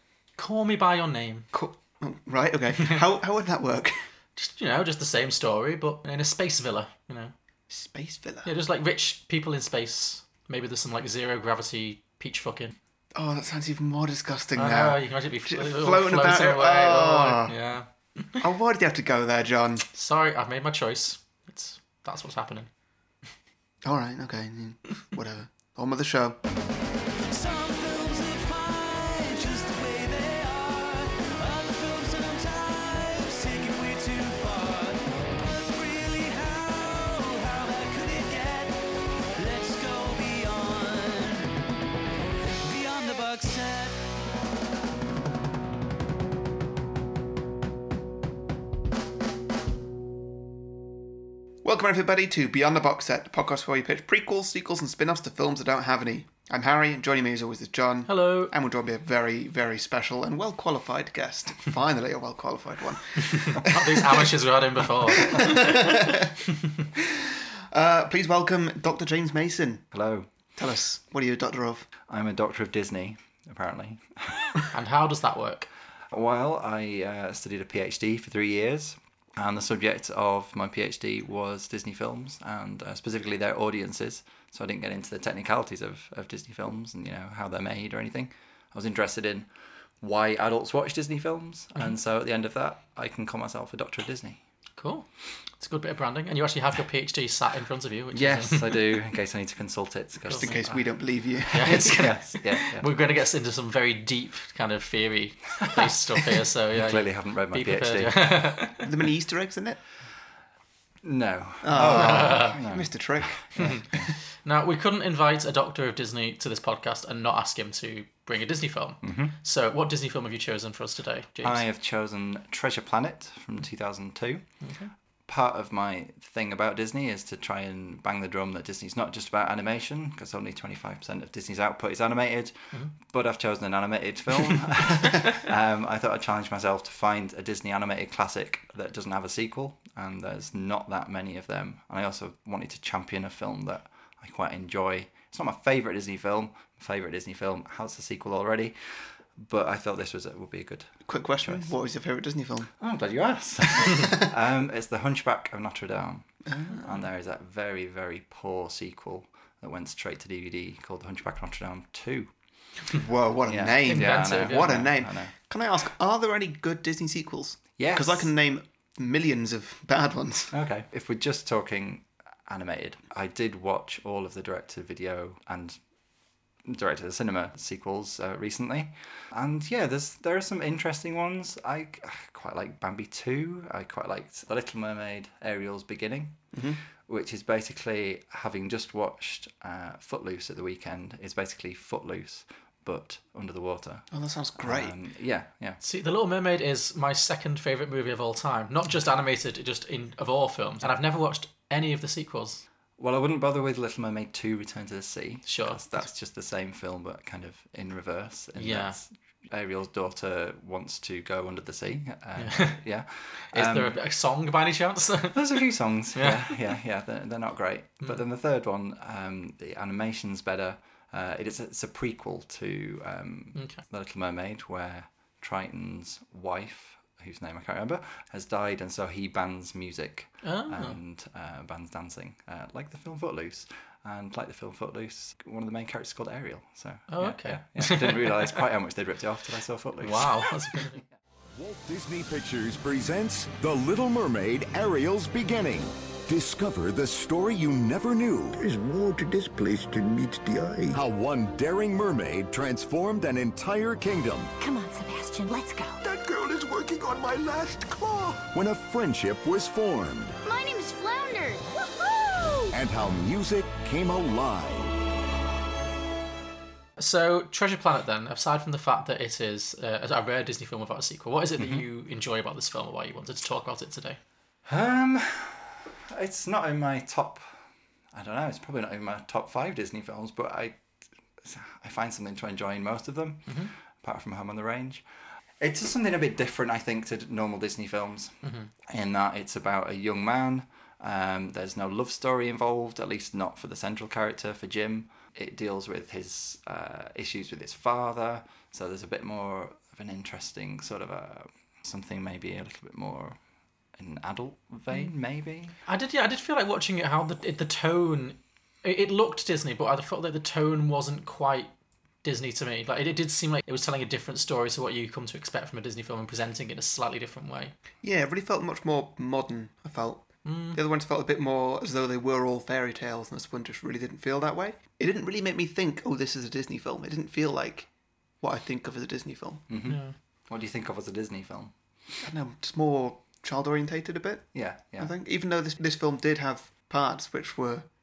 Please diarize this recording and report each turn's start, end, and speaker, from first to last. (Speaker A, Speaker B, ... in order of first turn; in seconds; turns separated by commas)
Speaker A: 0.4-1.5, Speaker B: 1.5-4.0, Speaker A: 4.4-7.3, Speaker B: 7.7-8.5, Speaker A: 8.4-12.8, Speaker B: 13.1-17.5, Speaker A: 14.6-18.4, Speaker B: 18.4-19.9, Speaker A: 19.9-22.7, Speaker B: 23.8-26.4, Speaker C: 27.3-41.5, Speaker C: 42.4-44.0, Speaker B: 51.6-64.3, Speaker A: 58.1-58.5, Speaker A: 63.3-66.1, Speaker B: 65.2-66.3, Speaker B: 67.0-69.9, Speaker D: 69.9-70.3, Speaker B: 70.5-71.9, Speaker D: 72.0-74.5, Speaker A: 74.7-75.7, Speaker D: 76.1-89.5, Speaker D: 90.0-94.4, Speaker A: 94.8-95.1, Speaker A: 95.6-98.9, Speaker D: 98.1-100.7, Speaker A: 100.2-108.8, Speaker B: 100.4-101.9, Speaker D: 101.6-102.9, Speaker D: 105.8-108.5, Speaker B: 108.8-109.8, Speaker D: 111.0-114.1, Speaker B: 111.6-113.8, Speaker A: 111.8-112.6, Speaker A: 113.6-121.6, Speaker D: 119.0-119.3, Speaker D: 121.4-124.5, Speaker A: 124.6-124.9, Speaker D: 125.2-151.7, Speaker B: 151.1-152.7, Speaker D: 152.8-162.3, Speaker B: 153.8-154.1, Speaker B: 156.5-156.9, Speaker B: 162.9-170.5, Speaker D: 163.4-165.3, Speaker A: 163.8-164.8, Speaker D: 167.8-168.3, Speaker D: 170.5-175.8, Speaker D: 176.7-186.4, Speaker B: 186.5-186.8, Speaker D: 187.0-195.8, Speaker B: 194.1-194.9, Speaker A: 195.8-202.6, Speaker D: 203.0-214.0, Speaker A: 205.5-205.8, Speaker A: 208.6-209.0, Speaker A: 212.4-212.8, Speaker A: 213.5-216.6, Speaker D: 215.3-240.5, Speaker A: 223.6-223.8, Speaker A: 230.4-231.0, Speaker A: 237.1-238.6, Speaker A: 240.0-241.0, Speaker E: 241.6-248.6, Speaker F: 248.6-251.0, Speaker E: 250.9-254.5, Speaker G: 254.6-256.0, Speaker F: 256.0-258.4, Speaker E: 258.5-260.4, Speaker G: 260.4-262.7, Speaker E: 262.7-265.0, Speaker A: 267.0-274.2, Speaker D: 271.6-271.8, Speaker D: 274.6-277.5, Speaker D: 278.1-280.8, Speaker D: 281.4-285.0, Speaker D: 285.6-303.4, Speaker A: 288.4-288.7, Speaker D: 303.9-305.8, Speaker A: 305.9-311.7, Speaker A: 312.2-317.7, Speaker B: 318.0-329.6, Speaker A: 320.4-320.8, Speaker D: 329.7-331.7, Speaker A: 329.8-330.1, Speaker B: 332.2-337.9, Speaker D: 334.5-335.1